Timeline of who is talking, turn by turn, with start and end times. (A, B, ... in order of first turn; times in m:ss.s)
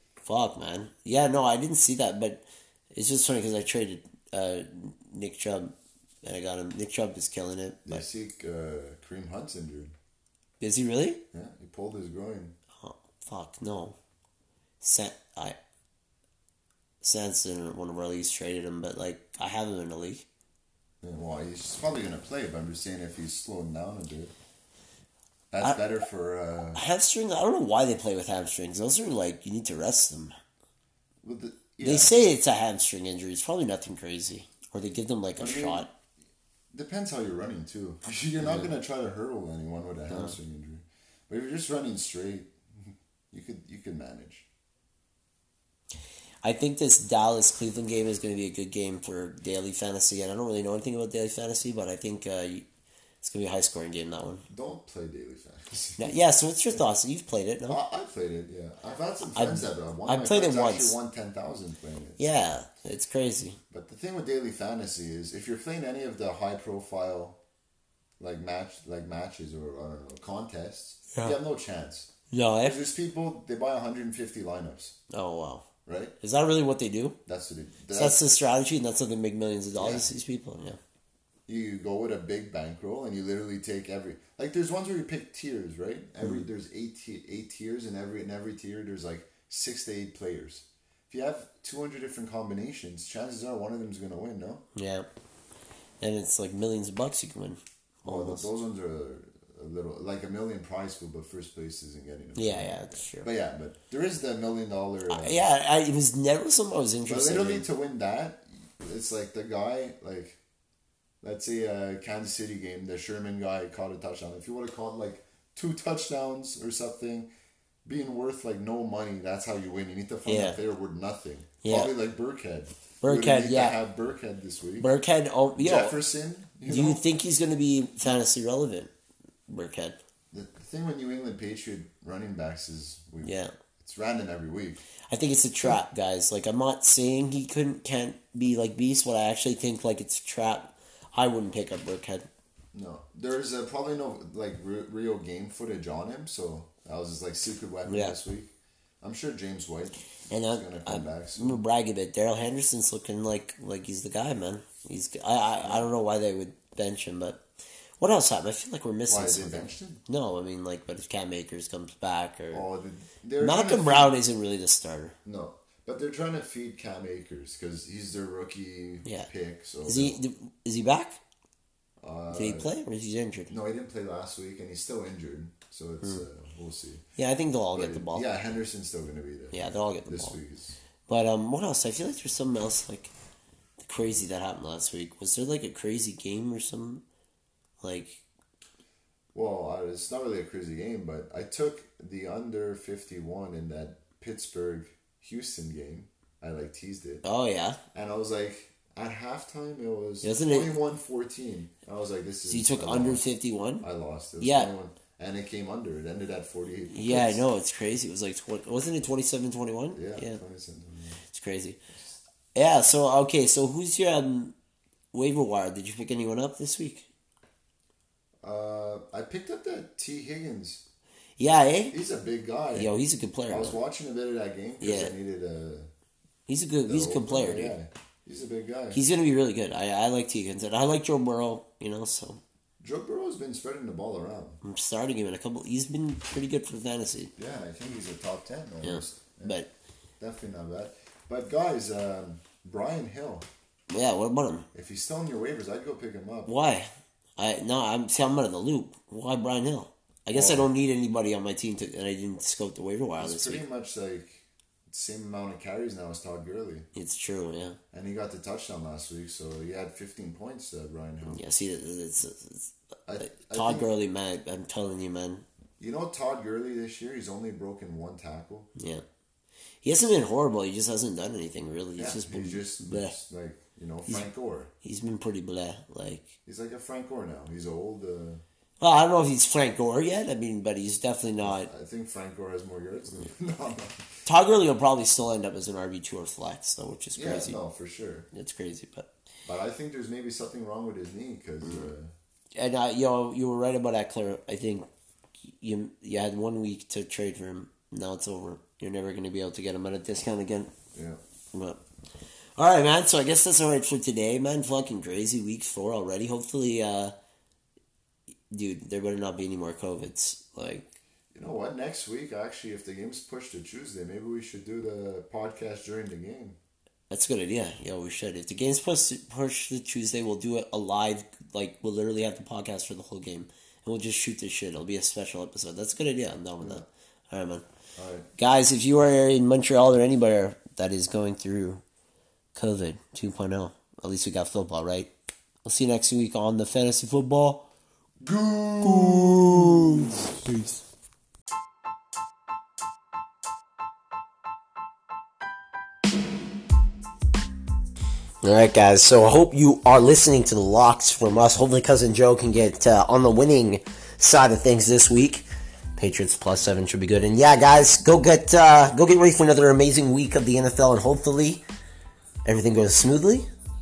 0:00.2-0:08.0 A
0:07.8-0:09.9 B
0:10.6-0:11.2 A
0:11.3-0:12.5 B
0:12.8-0:14.0 A
0:14.8-0:15.6 A
0:17.0-0:20.2 A
0:21.0-0:24.3 B
0:25.5-0:26.8 B
0:26.7-0:30.3 A
0:31.2-0:32.1 B
0:31.8-0:35.9 A
0:35.4-0:35.9 B
0:36.7-0:44.5 B
0:38.4-0:38.7 A
0:40.1-0:40.4 A
0:46.4-0:52.6 A
0:53.2-0:54.4 A
0:54.5-0:56.2 B
0:56.0-0:57.8 A
0:57.7-1:02.3 B
0:59.3-1:01.0 A
1:02.2-1:03.6 A
1:03.7-1:07.4 B
1:08.2-1:12.1 B
1:12.3-1:12.8 A
1:12.6-1:15.0 B
1:15.1-1:15.7 A
1:15.8-1:16.1 B
1:16.2-1:17.2 A
1:17.2-1:18.2 B
1:17.9-1:20.8 A
1:19.8-1:20.1 B
1:21.5-1:34.6 B
1:34.7-1:35.1 A
1:36.0-1:38.5 A
1:38.0-1:45.4 B
1:42.4-1:43.3 A
1:45.1-1:47.6 A
1:47.1-1:50.4 B
1:51.2-1:57.3 B
1:57.8-2:04.9 B
2:00.2-2:00.6 A
2:01.6-2:01.9 A
2:03.0-2:03.8 A
2:04.8-2:05.9 A
2:05.6-2:07.0 B
2:06.6-2:08.9 A
2:09.5-2:10.0 A
2:10.3-2:14.8 B
2:13.2-2:13.5 A
2:15.1-2:22.3 A
2:22.7-2:31.6 B
2:27.9-2:28.2 A
2:30.3-2:37.4 A
2:35.6-2:35.9 B
2:38.0-2:42.7 A
2:39.1-2:40.0 B
2:42.5-2:44.1 B
2:43.4-2:45.2 A
2:45.2-2:50.2 B
2:49.0-2:49.3 A
2:49.8-2:51.2 A
2:52.0-2:52.7 B
2:52.3-2:53.5 A
2:53.5-2:57.0 B
2:57.2-2:58.3 A
2:57.7-3:00.8 B
2:59.5-3:00.4 A
3:01.0-3:03.1 A
3:03.8-3:07.0 A
3:07.8-3:08.2 A
3:09.3-3:17.2 B
3:17.2-3:17.8 A
3:17.9-3:23.2 B
3:20.2-3:20.7 A
3:22.5-3:23.8 A
3:23.8-3:27.4 B
3:24.4-3:24.7 A
3:26.9-3:30.4 A
3:29.9-3:31.2 B
3:31.3-3:31.8 A
3:32.5-3:34.5 A
3:35.1-3:37.1 A
3:38.4-3:40.8 B
3:41.4-3:42.0 A
3:41.9-3:42.9 B
3:42.7-3:43.8 A
3:43.5-3:45.9 B
3:44.8-3:45.1 A
3:46.5-3:47.7 A
3:46.8-3:49.0 B
3:48.9-3:52.4 A
3:52.8-3:54.6 B
3:54.6-3:57.3 A
3:57.4-3:59.6 B
3:58.8-3:59.7 A
4:00.2-4:03.5 B
4:03.9-4:04.7 A
4:04.7-4:06.5 B
4:06.5-4:13.6 A
4:10.3-4:10.7 B
4:13.2-4:16.9 B
4:16.9-4:17.8 A
4:17.9-4:21.4 B
4:21.2-4:25.4 A
4:23.0-4:23.9 B
4:25.8-4:28.7 B
4:28.8-4:29.0 A
4:29.8-4:33.1 A
4:32.0-4:34.7 B
4:34.8-4:36.4 A
4:36.4-4:38.4 B
4:38.8-4:41.7 A
4:41.4-4:44.1 B
4:44.2-4:47.6 A
4:47.2-4:48.3 B
4:48.3-4:49.1 A
4:49.4-4:52.1 B
4:51.6-4:51.9 A
4:52.6-4:54.9 A
4:55.6-5:00.7 A
5:00.9-5:01.2 B
5:01.5-5:01.8 A
5:02.6-5:07.1 A
5:08.5-5:10.9 A
5:11.3-5:16.6 B
5:17.1-5:27.6 A
5:26.6-5:26.8 B
5:28.0-5:28.3 B
5:28.4-5:31.8 A
5:32.5-5:35.1 A
5:35.6-5:37.7 A
5:38.2-5:40.5 B
5:38.8-5:40.8 A
5:48.4-6:01.6 A
6:02.4-6:03.4 A